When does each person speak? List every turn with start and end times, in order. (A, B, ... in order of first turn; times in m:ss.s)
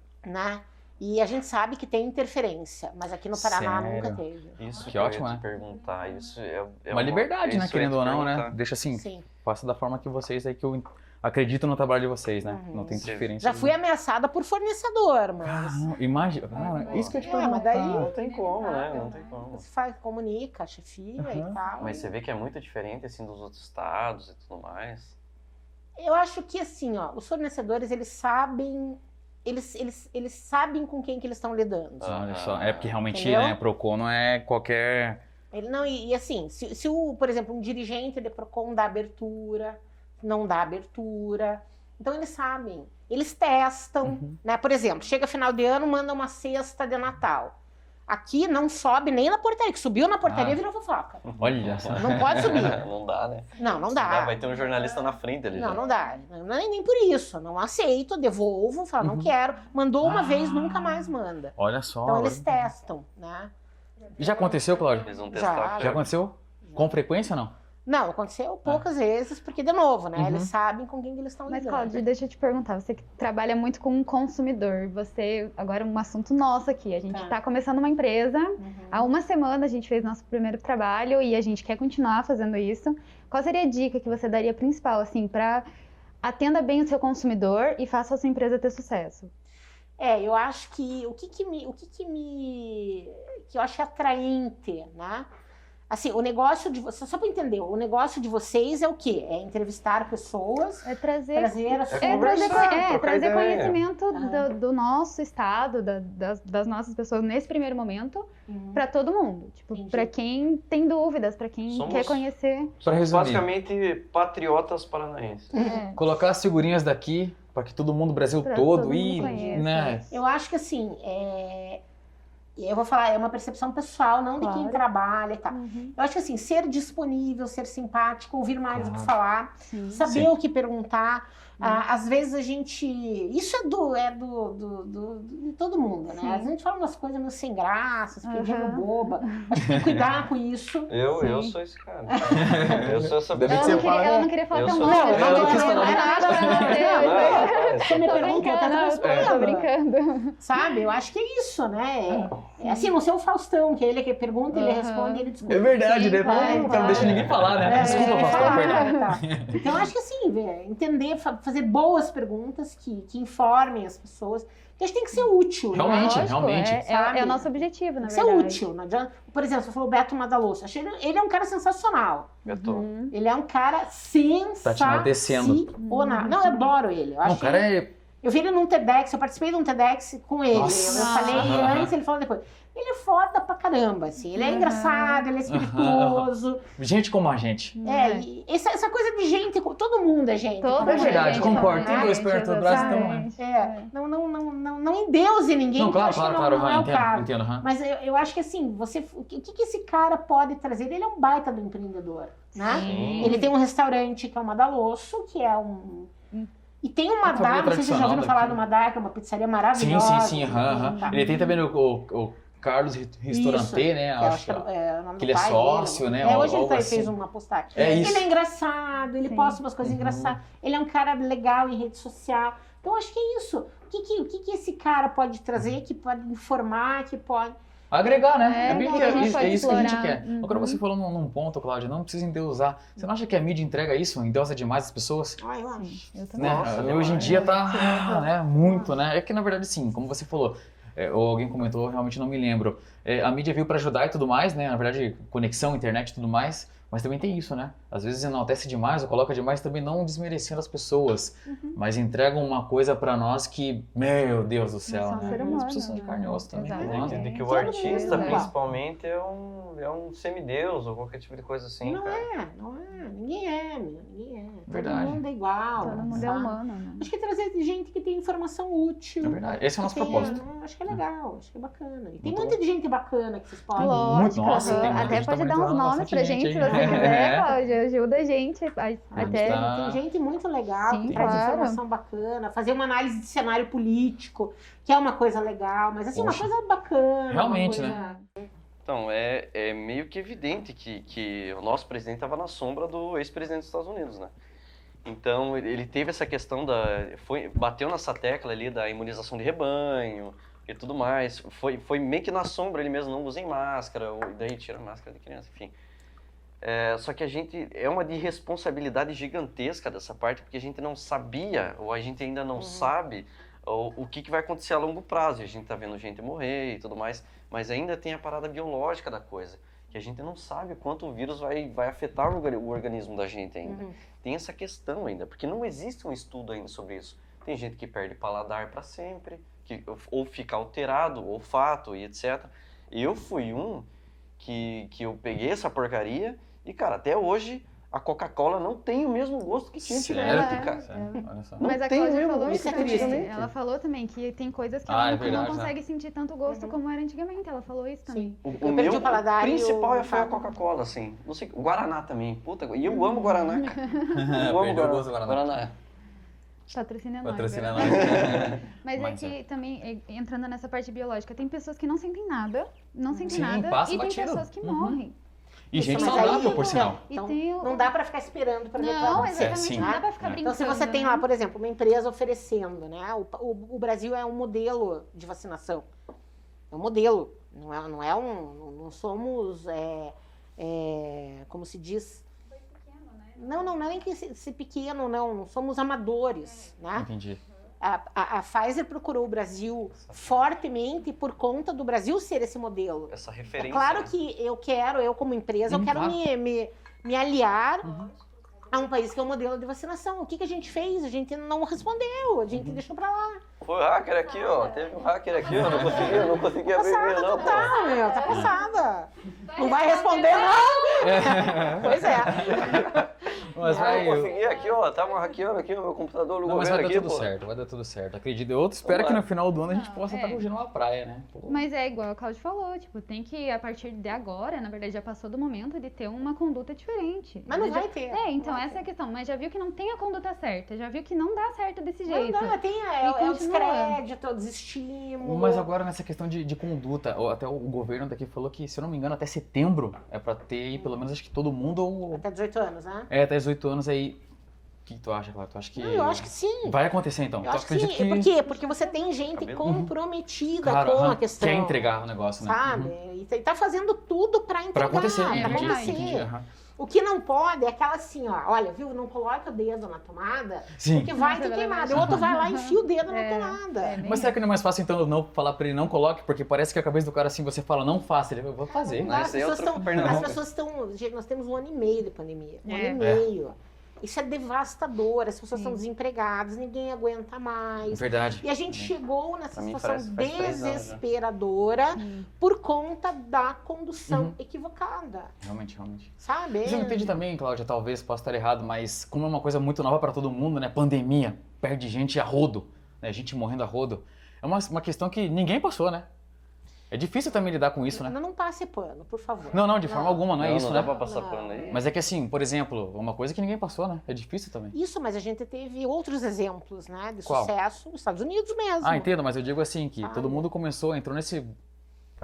0:00.2-0:04.6 A
0:03.3-0:04.2 B
0:04.6-0:08.6 C
0:04.8-0:05.4 B
0:05.6-0:06.3 D
0:06.9-0:13.7 B
0:08.9-0:09.2 A
0:12.4-0:15.8 A
0:12.9-0:13.4 C
0:15.4-0:18.1 B
0:16.5-0:19.4 D
0:16.9-0:17.2 C
0:16.9-0:18.1 A
0:17.8-0:19.6 C
0:19.4-0:22.1 A
0:21.2-0:21.6 B
0:21.8-0:25.1 C
0:26.0-0:32.1 A
0:32.0-0:32.9 C
0:32.0-0:35.2 B
0:33.1-0:33.6 A
0:35.5-0:47.5 A
0:44.0-0:44.4 B
0:48.1-0:51.2 A
0:50.2-0:50.6 B
0:51.2-0:55.8 C
0:51.4-0:52.8 B
0:52.0-0:52.8 A
0:53.6-0:54.4 A
0:55.5-1:03.5 A
0:59.0-0:59.3 B
1:00.0-1:02.7 B
1:04.2-1:05.2 B
1:04.2-1:04.6 A
1:04.4-1:05.0 D
1:05.0-1:06.1 C
1:05.2-1:06.0 A
1:05.8-1:07.5 B
1:06.6-1:06.9 A
1:07.8-1:12.0 A
1:10.2-1:10.5 B
1:11.5-1:25.7 D
1:17.1-1:17.4 A
1:18.6-1:19.1 A
1:26.2-1:29.3 D
1:30.0-1:35.3 A
1:35.9-1:42.8 A
1:40.8-1:52.7 D
1:41.9-1:43.8 C
1:44.1-1:44.5 A
1:48.5-1:48.8 A
1:49.7-1:50.1 A
1:51.7-1:52.2 C
1:52.8-1:55.6 C
1:52.8-1:53.4 B
1:55.5-1:55.8 A
1:55.5-1:56.1 D
1:56.0-2:00.1 B
1:58.4-2:00.1 D
1:59.1-2:01.8 A
2:02.6-2:20.9 A
2:04.4-2:04.8 D
2:05.5-2:05.9 D
2:08.7-2:09.1 B
2:09.6-2:10.0 D
2:10.0-2:10.3 B
2:16.1-2:16.5 D
2:18.2-2:19.4 D
2:19.6-2:20.1 B
2:20.9-2:25.9 C
2:21.2-2:21.6 D
2:22.2-2:22.9 A
2:22.3-2:24.3 B
2:23.5-2:30.8 D
2:24.8-2:29.7 A
2:25.1-2:26.9 B
2:26.5-2:28.4 C
2:29.0-2:29.4 B
2:30.4-2:52.4 A
2:32.6-2:32.9 D
2:34.5-2:39.6 D
2:35.4-2:39.8 B
2:45.7-2:46.8 B
2:45.8-2:48.6 D
2:52.4-2:52.8 C
2:52.4-2:53.1 D
2:53.1-2:57.7 A
2:54.6-2:55.7 B
2:55.8-2:56.7 D
2:57.2-2:57.9 B
2:58.2-3:06.6 A
3:00.5-3:01.9 B
3:00.9-3:01.6 D
3:04.3-3:05.3 D
3:05.4-3:07.8 B
3:07.8-3:08.2 D
3:07.8-3:26.1 A
3:10.6-3:13.9 D
3:10.8-3:13.3 B
3:15.7-3:17.7 B
3:22.5-3:23.5 D
3:22.7-3:23.4 B
3:22.8-3:23.4 C
3:26.8-3:31.3 A
3:27.2-3:28.6 B
3:29.7-3:34.7 B
3:30.9-3:31.6 D
3:33.3-3:47.6 A
3:35.2-3:37.1 B
3:37.7-3:38.3 B
3:37.8-3:38.1 D
3:39.2-3:39.6 D
3:39.8-3:40.4 B
3:47.9-3:55.4 B
3:48.4-3:50.8 D
3:48.6-3:50.0 A
3:55.4-3:56.1 A
3:55.8-3:58.2 D
3:56.4-4:17.2 B
3:56.4-3:57.4 C
3:57.0-3:58.9 A
4:11.5-4:11.8 A
4:14.9-4:18.5 D
4:15.1-4:15.6 A
4:16.7-4:22.2 C
4:17.0-4:18.5 A
4:21.8-4:35.2 A
4:24.7-4:25.2 B
4:25.8-4:27.1 D
4:26.0-4:26.3 B
4:29.2-4:31.0 B
4:30.0-4:30.4 D
4:32.2-4:32.6 B
4:33.7-4:37.5 B
4:33.7-4:39.6 D
4:36.6-4:37.4 A
4:39.1-4:48.2 A
4:39.2-4:40.0 B
4:40.8-4:41.8 D
4:41.1-4:41.4 B
4:46.1-4:46.5 B
4:47.3-4:48.0 B
4:47.6-4:48.2 D
4:48.8-4:54.3 C
4:55.0-5:05.7 C
5:06.6-5:33.9 C
5:12.6-5:12.9 A
5:23.6-5:24.0 A
5:34.4-5:40.9 C
5:39.9-5:41.7 B
5:40.2-5:48.4 D
5:41.6-5:43.3 A
5:41.6-5:43.5 C
5:44.9-5:45.7 B
5:45.2-5:45.5 A
5:46.5-5:46.8 A
5:48.1-5:50.4 A
5:48.4-5:55.7 C
5:52.9-5:54.2 D
5:54.1-5:55.6 B
5:56.7-6:05.1 D
5:57.2-5:59.4 B
5:57.8-5:58.6 C
6:03.1-6:03.4 A
6:03.3-6:05.0 B
6:05.7-6:07.0 B
6:05.8-6:07.9 D
6:05.8-6:15.9 A
6:08.8-6:11.3 D
6:09.1-6:10.4 B
6:16.7-6:22.2 A
6:22.8-6:23.4 D
6:23.4-6:27.1 A
6:27.0-6:27.4 B
6:27.8-6:37.9 A
6:33.1-6:34.1 C
6:35.7-6:36.2 B
6:37.8-6:38.1 B
6:38.7-6:43.4 A
6:42.5-6:42.8 B
6:43.6-6:47.8 C
6:44.4-6:45.0 D
6:45.4-6:46.4 B
6:46.0-6:52.8 A
6:47.4-6:48.8 D
6:48.3-6:48.5 B
6:49.4-6:52.2 D
6:51.0-6:54.4 B
6:52.2-6:53.1 C
6:53.6-6:54.3 A
6:53.6-6:57.3 C
6:54.2-6:54.8 D
6:56.4-7:01.6 B
6:58.8-6:59.2 C
6:59.7-7:00.4 D
7:01.5-7:14.0 D
7:07.4-7:08.8 A
7:12.1-7:15.7 A
7:15.2-7:22.2 B
7:22.1-7:23.1 A
7:23.1-7:24.2 B
7:24.8-7:28.3 B
7:25.8-7:26.8 A
7:27.4-7:31.8 A
7:29.3-7:29.8 C
7:29.6-7:29.9 B
7:30.6-7:32.9 B
7:32.4-7:44.0 A
7:34.7-7:36.4 B
7:34.9-7:36.1 D
7:40.8-7:41.1 B
7:41.2-7:44.4 D
7:41.9-7:42.3 B
7:44.0-7:49.3 B
7:48.7-8:05.3 A
7:49.0-7:50.4 C
7:49.8-7:50.3 B
7:52.6-7:53.0 D
7:53.0-7:53.3 B
7:55.5-7:55.8 D
7:57.9-7:58.9 B
7:59.5-8:01.0 C
8:02.0-8:02.3 D
8:04.1-8:04.4 B
8:05.4-8:16.1 B
8:06.2-8:07.1 A
8:16.9-8:18.1 B
8:17.9-8:21.8 A
8:19.5-8:21.0 B
8:20.3-8:21.8 C
8:21.7-8:24.7 B
8:24.7-8:29.1 A
8:27.2-8:27.5 B
8:28.8-8:31.5 B
8:30.0-8:30.5 A